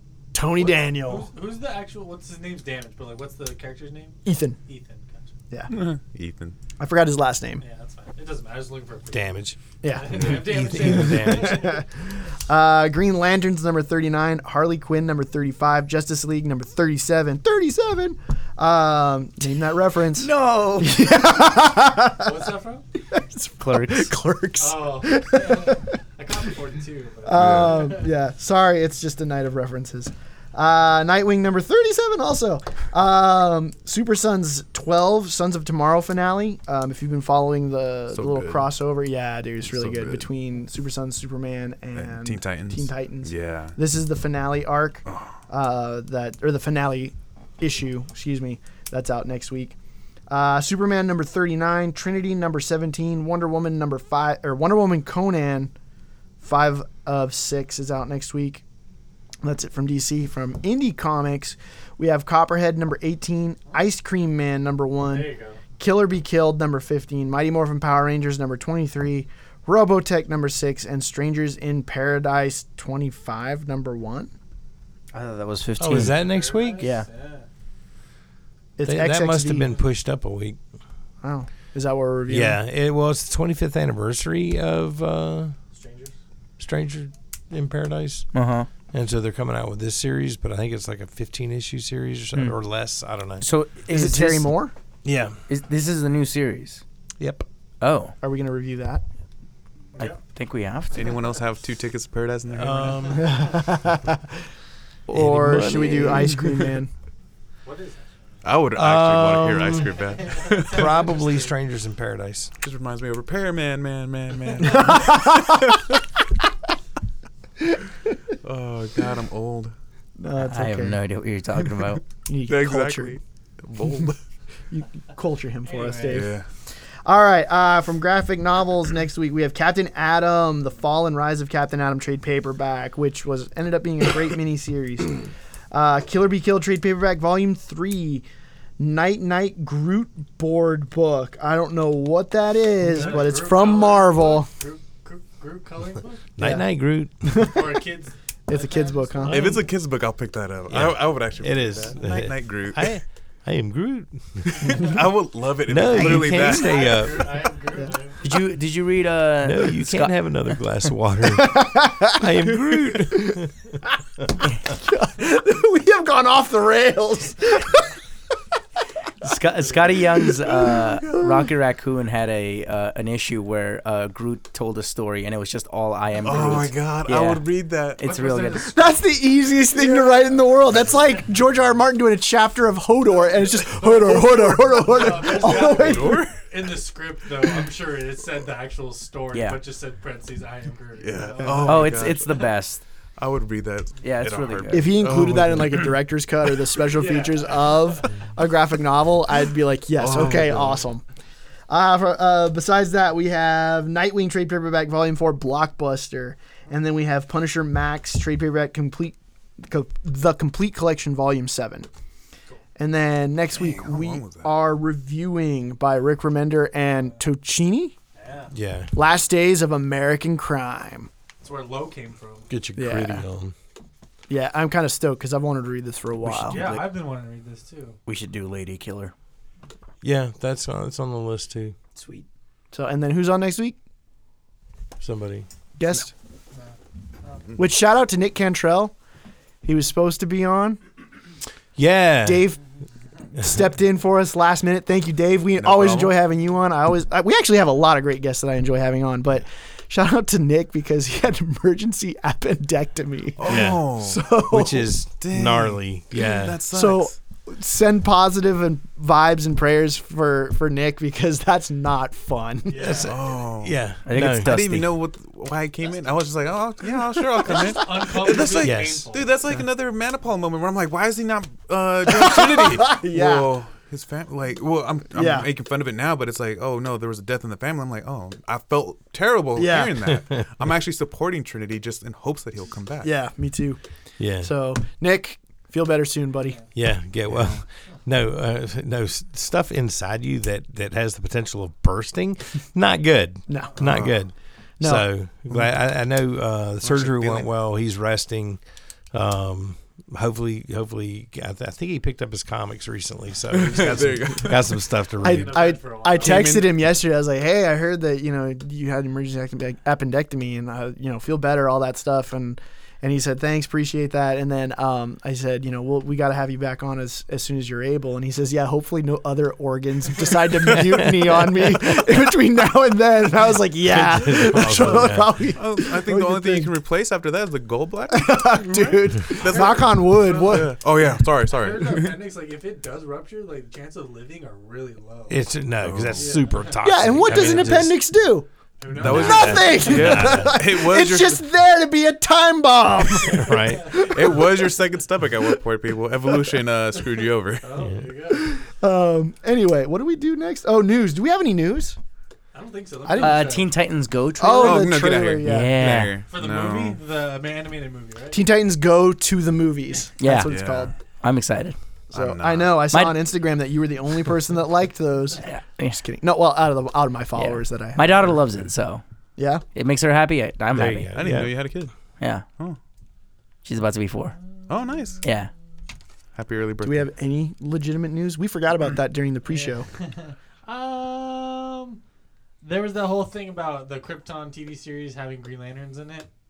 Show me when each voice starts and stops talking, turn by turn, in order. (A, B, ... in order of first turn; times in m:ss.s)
0:00.3-0:01.3 A
0:00.6-0:05.3 B
0:04.2-0:04.6 A
0:05.5-0:05.8 A
0:05.7-0:06.6 C
0:06.8-0:07.6 A
0:07.6-0:09.3 B
0:09.1-0:09.6 D
0:09.8-0:22.4 A
0:09.8-0:11.8 B
0:10.2-0:11.7 D
0:20.2-0:21.0 E
0:22.2-0:22.8 B
0:23.1-0:25.9 A
0:23.6-0:24.1 E
0:24.6-0:28.1 B
0:27.2-0:49.8 A
0:27.4-0:27.8 C
0:38.1-0:38.7 C
0:39.6-0:40.3 C
0:41.9-0:43.8 C
0:45.1-0:45.4 C
0:50.3-0:55.7 A
0:56.4-0:58.6 A
0:59.4-1:14.3 A
1:05.1-1:05.6 B
1:15.1-1:16.2 E
1:15.8-1:16.9 D
1:15.9-1:17.5 B
1:16.8-1:17.1 E
1:18.8-1:19.7 A
1:18.8-1:20.6 D
1:21.2-1:22.6 A
1:22.3-1:25.6 D
1:25.7-1:26.2 B
1:26.6-1:28.3 D
1:28.3-1:28.7 E
1:28.9-1:33.4 D
1:33.4-1:34.5 E
1:33.9-1:34.7 A
1:35.0-1:35.4 D
1:35.5-1:36.8 E
1:37.2-1:37.5 D
1:37.8-1:38.2 E
1:38.2-1:39.0 A
1:40.0-1:41.1 E
1:40.9-1:43.2 C
1:42.6-1:43.4 D
1:42.7-1:43.4 B
1:43.2-1:44.3 A
1:45.1-1:46.9 A
1:45.1-1:46.6 D
1:45.6-1:46.2 E
1:47.6-1:48.4 B
1:48.4-1:51.0 C
1:48.8-1:49.9 D
1:49.9-1:51.5 B
1:50.7-1:52.5 D
1:52.6-1:55.9 C
1:54.7-1:55.6 A
1:58.4-1:59.7 C
2:00.2-2:01.0 A
2:00.4-2:02.0 E
2:02.3-2:03.2 A
2:02.5-2:04.2 C
2:04.7-2:06.4 A
2:05.7-2:06.3 B
2:06.1-2:06.5 C
2:07.0-2:18.2 A
2:18.8-2:24.5 A
2:22.8-2:26.4 B
2:26.4-2:27.5 D
2:26.4-2:26.7 A
2:27.2-2:27.8 A
2:27.4-2:29.6 B
2:28.5-2:29.6 A
2:29.3-2:32.9 C
2:30.7-2:34.9 D
2:34.5-2:37.0 C
2:35.7-2:37.4 D
2:36.0-2:36.6 E
2:36.4-2:38.2 B
2:38.2-2:40.2 E
2:39.4-2:43.5 D
2:41.3-2:43.4 A
2:44.6-2:47.9 A
2:49.2-2:58.9 E
2:49.7-2:50.0 B
2:50.4-2:51.5 A
2:56.2-2:58.0 C
2:58.0-2:58.9 B
2:58.7-3:06.3 A
2:59.7-3:01.2 B
3:03.1-3:12.0 B
3:04.1-3:06.5 C
3:09.3-3:09.6 E
3:11.0-3:12.3 C
3:11.6-3:12.8 E
3:13.2-3:15.9 C
3:14.0-3:15.0 E
3:14.7-3:21.0 A
3:16.9-3:18.1 B
3:20.0-3:20.8 C
3:21.7-3:31.9 A
3:32.8-3:37.9 A
3:33.5-3:34.5 C
3:38.2-3:38.5 B
3:38.5-3:38.9 D
3:38.9-3:41.1 A
3:41.4-3:42.5 B
3:42.5-3:43.5 D
3:42.8-3:43.2 A
3:44.3-3:46.8 A
3:46.2-3:46.8 E
3:46.5-3:48.0 B
3:48.1-3:49.1 E
3:50.0-3:51.8 D
3:52.0-3:52.2 E
3:52.7-3:53.8 A
3:55.0-3:55.5 D
3:55.8-3:56.1 A
3:57.6-3:58.9 A
3:59.6-4:00.8 A
4:01.8-4:02.5 D
4:02.2-4:02.6 A
4:03.4-4:14.9 A
4:05.6-4:06.1 C
4:13.4-4:14.2 C
4:13.4-4:13.9 D
4:14.5-4:16.6 D
4:15.2-4:17.1 C
4:16.7-4:23.1 A
4:22.7-4:23.1 B
4:22.8-4:24.6 D
4:23.1-4:43.1 C
4:24.1-4:24.9 E
4:27.4-4:27.7 A
4:27.5-4:29.4 B
4:28.6-4:29.1 D
4:32.1-4:33.5 A
4:35.2-4:35.5 A
4:39.6-4:40.1 A
4:43.0-4:43.8 A
4:44.2-4:44.5 D
4:44.4-4:46.6 A
4:46.8-4:58.6 D
4:47.3-4:47.6 C
4:53.5-4:54.2 A
4:53.8-4:54.1 C
4:54.8-4:55.1 A
4:56.8-4:57.5 C
4:59.1-5:05.7 D
5:03.5-5:04.8 C
5:05.2-5:06.5 B
5:05.2-5:26.7 A
5:06.2-5:06.7 C
5:20.8-5:21.6 D
5:23.8-5:25.5 D
5:25.6-5:32.2 C
5:28.1-5:30.8 A
5:28.7-5:30.8 B
5:31.4-5:35.4 B
5:35.3-5:38.0 D
5:35.8-5:36.4 C
5:36.2-5:37.8 B
5:36.8-5:38.5 A
5:38.8-5:40.1 B
5:38.9-5:41.4 C
5:39.0-5:40.6 D
5:39.1-5:44.7 A
5:43.3-5:44.0 D
5:43.4-5:44.4 B
5:43.9-5:47.6 C
5:47.6-5:48.6 B
5:48.4-5:52.0 A
5:52.5-5:53.7 B
5:53.0-5:53.5 A
5:53.2-5:56.2 E
5:54.4-5:55.8 A
5:54.6-5:57.0 C
5:56.2-5:58.4 B
5:58.3-6:01.0 A
6:00.2-6:00.6 E
6:00.4-6:00.9 C
6:01.2-6:01.8 E
6:02.1-6:02.8 C
6:02.1-6:08.4 A
6:02.9-6:03.2 E
6:05.4-6:06.0 E
6:07.4-6:09.0 E
6:09.4-6:09.6 A
6:09.7-6:11.2 E
6:10.7-6:11.6 D
6:11.1-6:11.9 C
6:12.2-6:12.4 E
6:13.6-6:14.4 E
6:14.6-6:15.2 B
6:14.7-6:15.2 C
6:15.2-6:15.5 E
6:16.4-6:17.1 C
6:16.8-6:19.9 A
6:19.5-6:22.0 B
6:22.6-6:26.3 B